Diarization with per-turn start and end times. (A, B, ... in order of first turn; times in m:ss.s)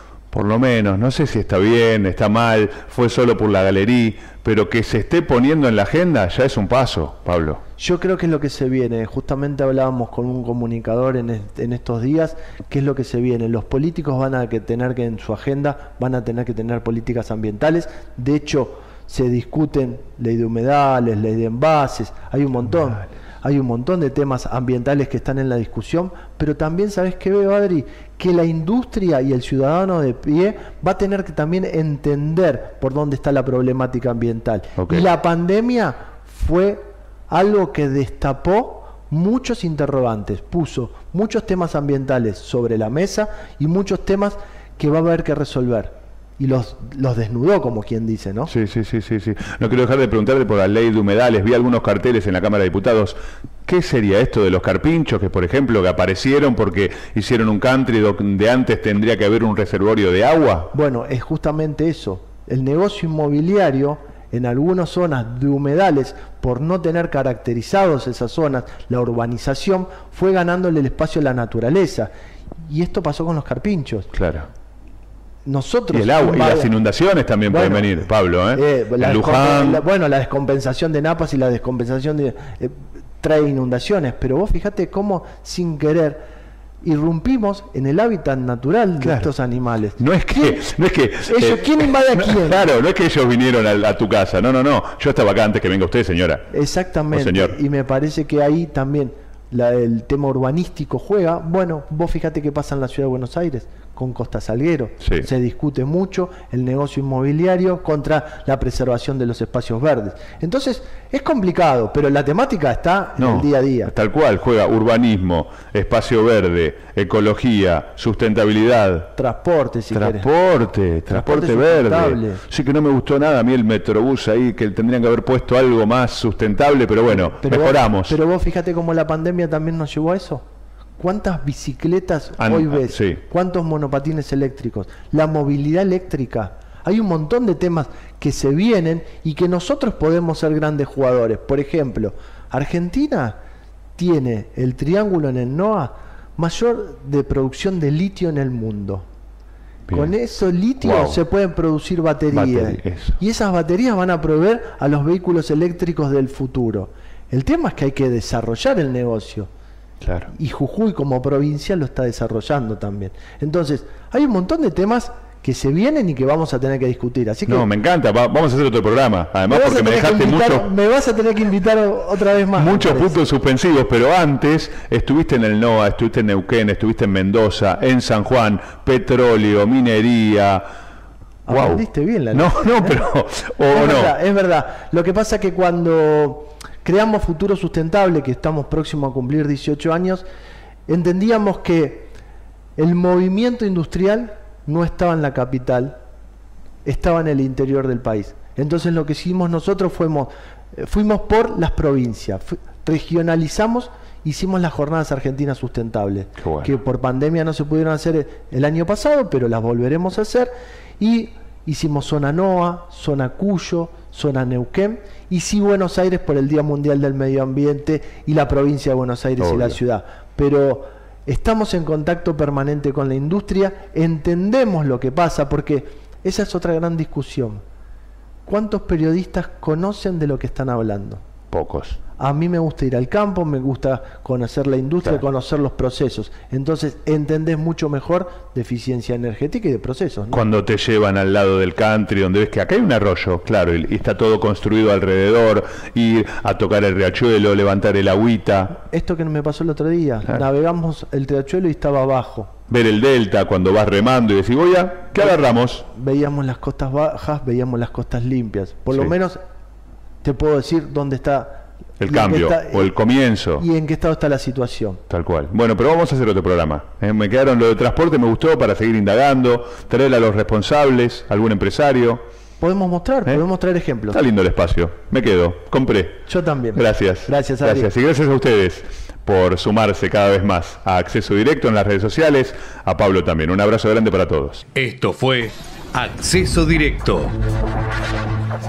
0:00.3-0:07.6 A
0:07.8-0:48.5 B
0:34.8-0:35.1 A
0:48.5-1:00.7 A
1:00.7-1:12.1 B
1:12.7-1:14.1 B
1:14.1-1:14.5 A
1:15.4-1:16.7 B
1:15.9-1:19.8 A
1:17.5-1:26.2 B
1:26.8-1:30.6 B
1:29.0-1:29.3 A
1:30.0-1:36.5 A
1:31.3-1:32.7 B
1:36.5-1:53.9 B
1:37.1-1:37.6 A
1:45.0-1:45.3 A
1:53.2-1:59.1 A
1:59.2-2:00.3 B
1:59.9-2:08.2 A
2:01.1-2:02.4 B
2:07.1-2:10.4 B
2:11.0-2:23.4 B
2:12.4-2:13.2 A
2:24.0-2:29.1 B
2:29.9-2:30.1 A
2:29.9-2:39.5 B
2:30.8-2:31.2 A
2:32.3-2:33.2 A
2:40.0-2:40.3 A
2:40.3-2:47.7 B
2:47.5-2:50.7 A
2:49.5-2:53.2 B
2:52.6-3:00.6 A
3:01.5-3:03.1 B
3:01.5-3:04.1 A
3:03.7-3:10.2 B
3:10.9-3:12.1 B
3:12.8-3:16.0 B
3:16.8-3:47.6 B
3:26.4-3:26.7 A
3:39.4-3:39.8 A
3:48.5-3:51.2 B
3:51.5-3:52.0 A
3:52.2-4:00.4 B
4:00.3-4:08.7 A
4:08.8-4:12.5 B
4:12.7-4:15.8 A
4:15.8-4:19.4 B
4:20.2-4:23.0 B
4:22.0-4:23.6 A
4:23.6-4:25.0 B
4:25.1-4:32.2 A
4:32.6-4:34.2 B
4:34.1-4:36.2 A
4:36.3-4:37.9 B
4:36.7-4:44.6 A
4:44.8-4:47.4 C